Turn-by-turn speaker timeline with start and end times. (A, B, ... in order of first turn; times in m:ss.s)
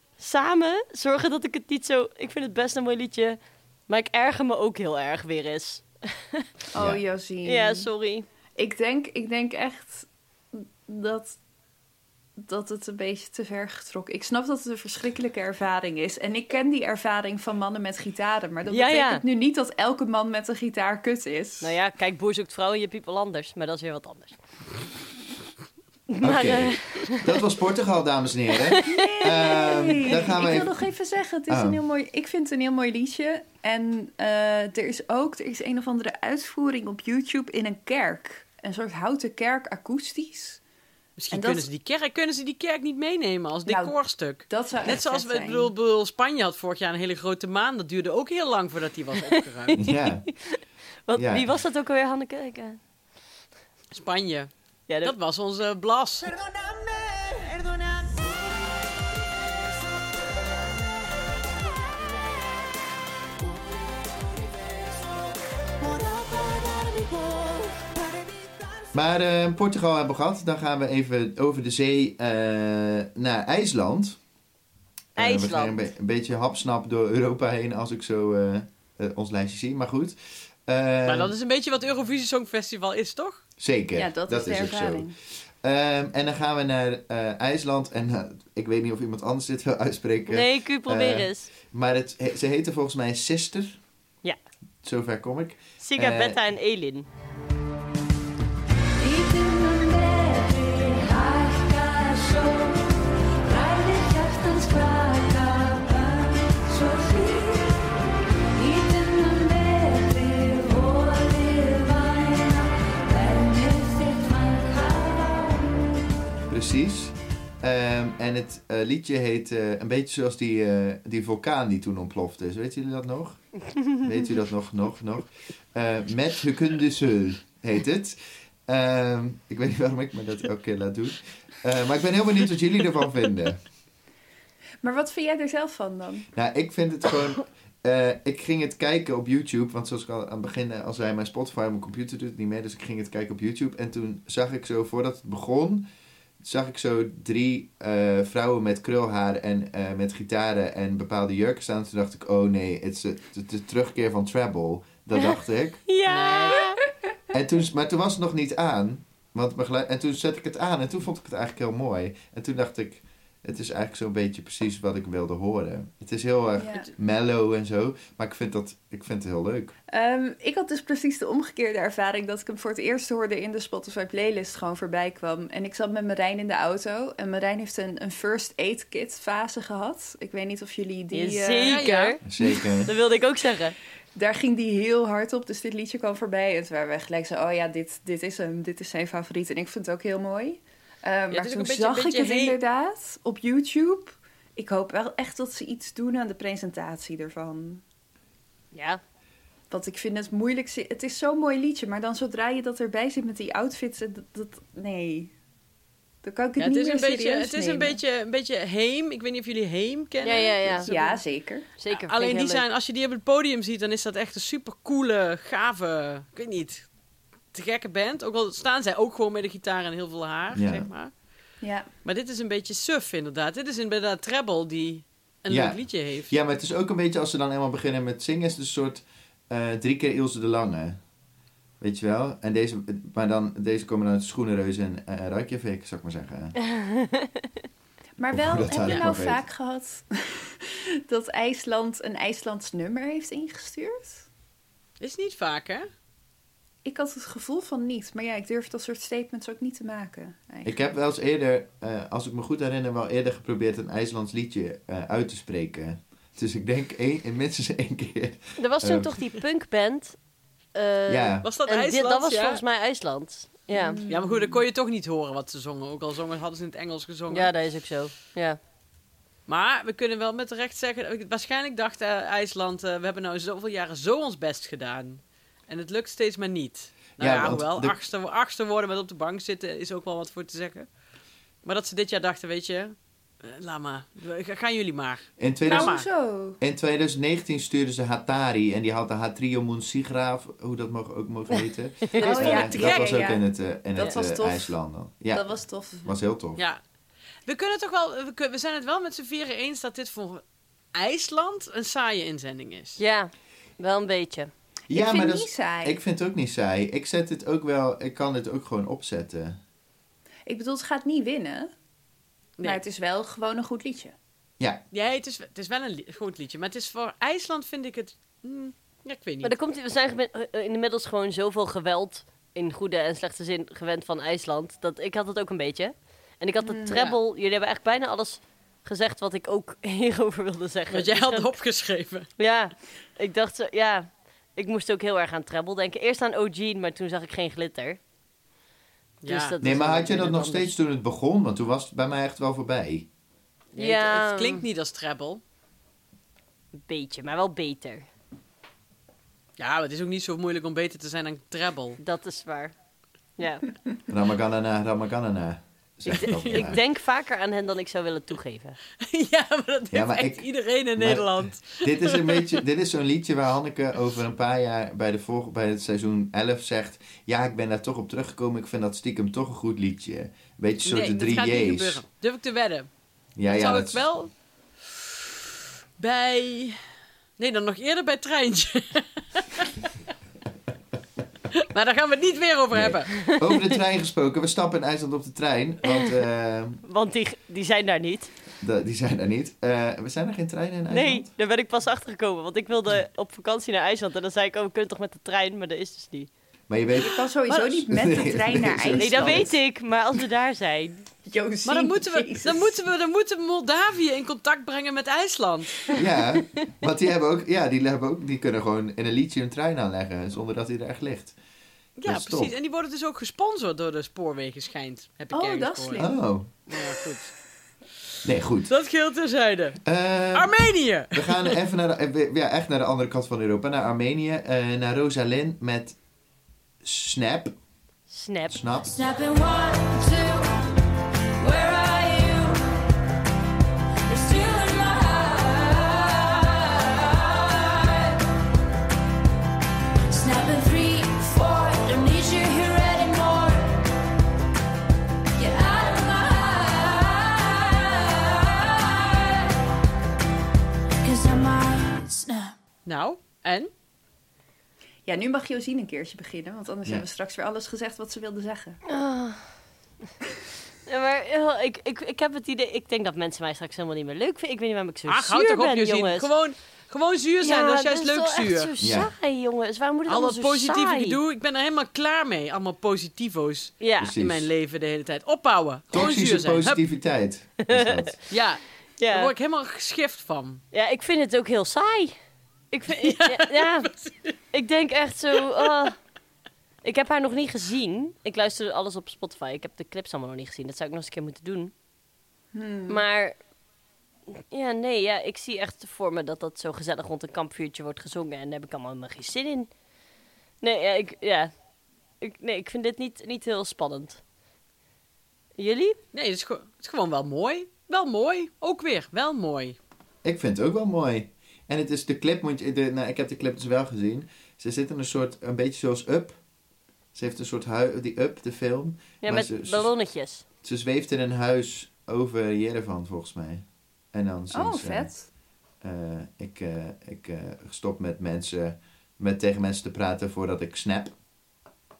0:00.2-0:06.4 A
0:06.7-0:07.9 B
0:06.8-0:07.0 C
0:07.4-0:08.2 A
0:08.6-0:11.4 B
0:12.4-0:21.7 B
0:18.7-0:19.2 A
0:21.6-0:24.4 A
0:26.1-0:27.2 A
0:26.2-0:30.8 C
0:28.7-0:29.0 A
0:28.8-0:40.6 B
0:31.5-0:31.8 C
0:41.2-0:49.8 D
0:41.3-0:41.7 B
0:43.6-0:45.7 B
0:49.8-0:50.3 C
0:49.8-0:52.8 A
0:51.1-0:51.5 C
0:53.9-0:54.5 D
0:54.9-0:55.1 A
0:55.0-0:56.3 D
1:05.8-1:07.9 E
1:08.9-1:14.2 C
1:15.2-1:20.2 C
1:15.2-1:15.8 A
1:20.7-1:21.3 C
1:21.0-1:23.4 D
1:23.6-1:33.8 C
1:24.0-1:25.1 B
1:30.3-1:31.5 A
1:34.8-1:36.4 C
1:35.8-1:37.1 A
1:39.0-1:47.8 E
1:48.5-1:56.0 E
1:56.5-2:13.6 C
2:14.8-2:16.3 B
2:16.3-2:25.9 C
2:26.4-2:35.8 C
2:35.9-2:36.8 A
2:36.0-2:36.6 D
2:37.3-2:49.7 C
2:46.6-2:46.9 B
2:49.9-3:01.8 B
3:01.1-3:03.7 A
3:01.6-3:02.2 D
3:02.2-3:02.9 C
3:04.1-3:17.8 B
3:11.3-3:12.6 D
3:18.7-3:19.0 A
3:19.7-3:25.3 B
3:26.2-3:28.0 B
3:26.6-3:31.2 D
3:30.2-3:30.9 A
3:30.8-3:31.6 B
3:31.8-3:32.6 A
3:31.9-3:36.9 D
3:37.5-3:41.1 D
3:40.5-3:40.9 C
3:41.6-3:41.9 B
3:42.0-3:46.3 D
3:45.5-3:51.0 C
3:51.8-3:56.5 C
3:56.7-3:57.3 A
3:58.2-4:04.3 B
3:58.3-3:59.4 C
4:05.0-4:05.9 D
4:06.8-4:10.8 B
4:10.6-4:19.1 C
4:18.6-4:20.2 A
4:20.7-4:24.0 A
4:21.1-4:21.5 C
4:21.4-4:22.6 D
4:23.7-4:24.6 B
4:24.1-4:27.5 D
4:27.3-4:28.6 A
4:29.5-4:40.9 D
4:37.2-4:38.0 C
4:41.6-4:46.1 D
4:45.4-4:46.0 C
4:45.6-4:46.6 B
4:46.6-4:56.6 C
4:52.2-4:53.2 D
4:52.2-4:54.8 B
4:55.3-4:56.1 B
4:57.4-5:00.4 D
5:00.9-5:03.0 D
5:03.0-5:04.5 A
5:04.9-5:09.6 C
5:04.9-5:06.0 B
5:10.5-5:11.7 B
5:12.6-5:14.1 B
5:14.9-5:19.5 D
5:19.4-5:31.5 A
5:30.9-5:32.3 D
5:32.4-5:38.0 A
5:39.2-5:39.6 D
5:39.2-5:40.7 A
5:39.6-5:43.1 C
5:43.7-5:45.4 D
5:43.8-5:44.6 A
5:46.8-5:48.1 A
5:49.6-5:52.0 D
5:52.0-5:52.7 A
5:53.4-5:53.6 A
5:54.1-5:56.8 C
5:56.1-5:58.8 A
5:56.2-5:56.7 D
5:59.0-6:02.6 D
5:59.9-6:12.0 C
6:10.8-6:12.9 D
6:13.4-6:14.0 C
6:13.4-6:14.3 D
6:16.0-6:16.8 D
6:17.4-6:19.8 D
6:21.5-6:23.4 D
6:22.7-6:26.8 C
6:26.8-6:28.3 A
6:28.6-6:31.3 C
6:30.9-6:36.3 A
6:36.7-6:39.5 C
6:37.0-6:39.6 B
6:38.9-6:41.0 A
6:41.2-6:42.8 B
6:41.6-6:46.0 D
6:45.9-6:51.3 C
6:52.0-6:56.0 D
6:52.0-6:52.5 C
6:55.3-6:56.2 B
6:56.0-6:56.5 C
6:56.7-6:57.3 D
6:58.2-6:58.7 C
6:58.7-6:59.8 D
6:59.8-7:00.6 C
7:00.3-7:01.6 D
7:01.1-7:06.0 C
7:06.8-7:07.5 C
7:08.1-7:08.6 A
7:08.5-7:09.0 C
7:08.8-7:10.6 E
7:11.4-7:12.6 E
7:14.1-7:18.2 E
7:20.0-7:23.8 E
7:25.4-7:29.4 E
7:31.0-7:32.5 E
7:32.8-7:33.7 D
7:35.0-7:38.8 B
7:38.9-7:39.4 A
7:40.8-7:46.3 A
7:45.1-7:48.7 D
7:47.4-7:51.2 A
7:48.8-7:49.1 C
7:50.1-7:56.8 D
7:53.8-7:54.1 A
7:54.0-7:54.5 C
7:55.9-7:58.2 C
7:57.7-7:58.1 A
7:58.3-8:00.6 D
7:59.0-7:59.3 A
8:00.7-8:02.1 A
8:02.7-8:03.9 A
8:02.9-8:04.4 D
8:04.5-8:06.0 A
8:06.8-8:11.7 A
8:12.5-8:13.0 B
8:12.9-8:13.4 A
8:14.3-8:19.7 A
8:20.6-8:21.5 A
8:22.2-8:24.2 A
8:25.6-8:26.0 A
8:26.1-8:29.8 D
8:30.2-8:36.4 C
8:37.1-8:39.9 C
8:39.2-8:40.4 A
8:40.6-8:45.1 C
8:44.5-8:45.2 B
8:45.8-8:51.1 C